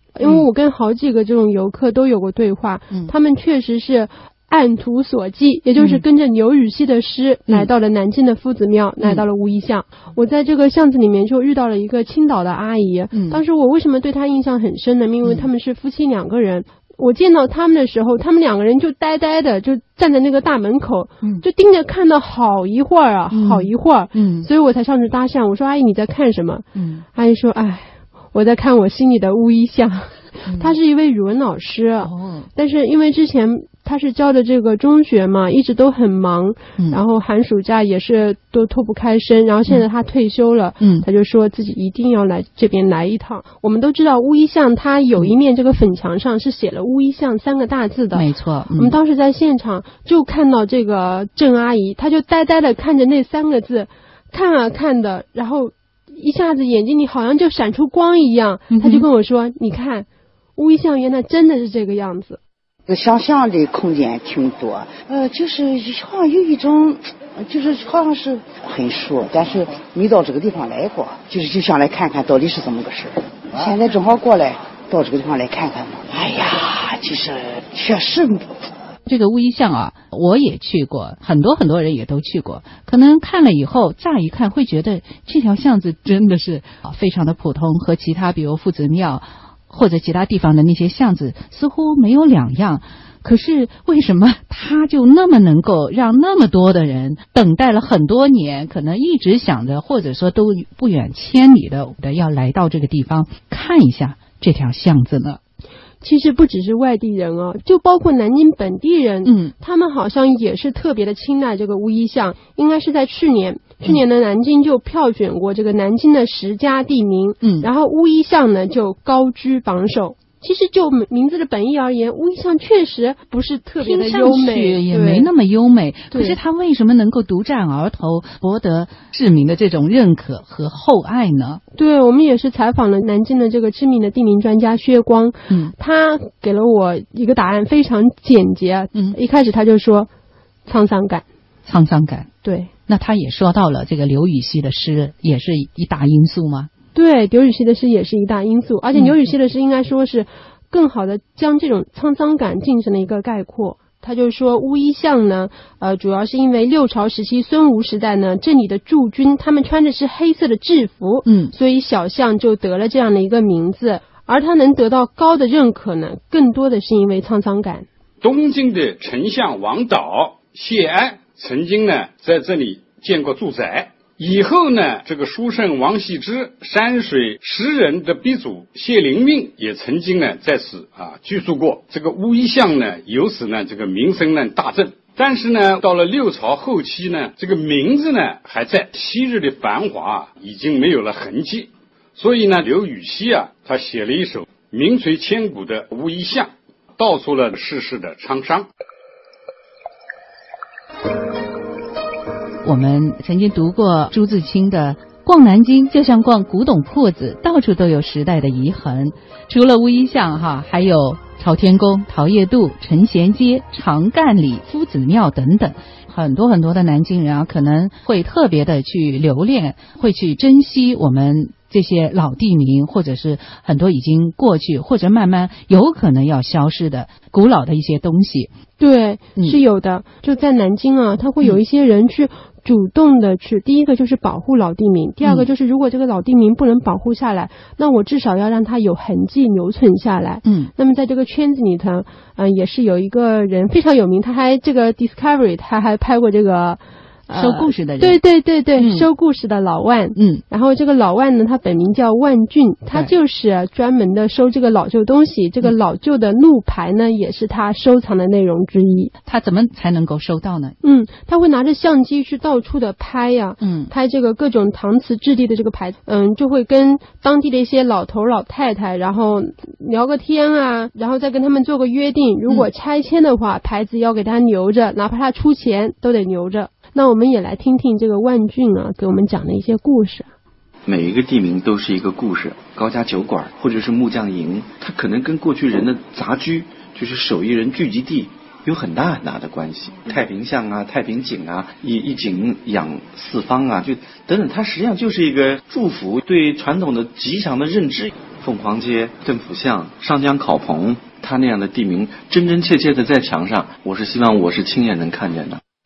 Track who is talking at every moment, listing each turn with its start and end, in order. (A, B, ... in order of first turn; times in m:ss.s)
0:00.2-1:02.4 A
0:05.8-0:06.0 B
0:09.0-0:09.3 B
0:13.1-0:13.4 B
0:15.2-0:15.5 B
0:23.3-0:24.5 B
0:26.8-0:27.0 B
0:30.5-0:30.8 B
0:32.0-0:32.5 B
0:48.1-0:49.0 B
0:58.7-0:59.1 B
1:02.9-1:18.5 C
1:19.1-1:45.4 B
1:46.0-2:05.3 A
1:49.2-1:49.5 B
1:57.4-1:57.7 B
2:03.8-2:11.6 B
2:06.1-2:06.4 A
2:11.7-2:20.1 A
2:15.5-2:15.7 B
2:20.7-2:21.2 A
2:21.7-2:22.3 B
2:22.4-2:22.7 A
2:22.9-2:26.7 B
2:26.9-2:47.9 A
2:41.3-2:41.5 B
2:48.2-3:18.7 D
3:22.6-3:48.5 B
3:48.8-4:19.1 A
3:55.2-3:55.5 B
4:00.4-4:00.7 B
4:07.3-4:08.2 B
4:08.8-4:09.1 B
4:10.2-4:10.4 B
4:19.3-4:20.8 B
4:20.8-4:40.3 A
4:23.6-4:23.9 B
4:40.9-5:05.6 E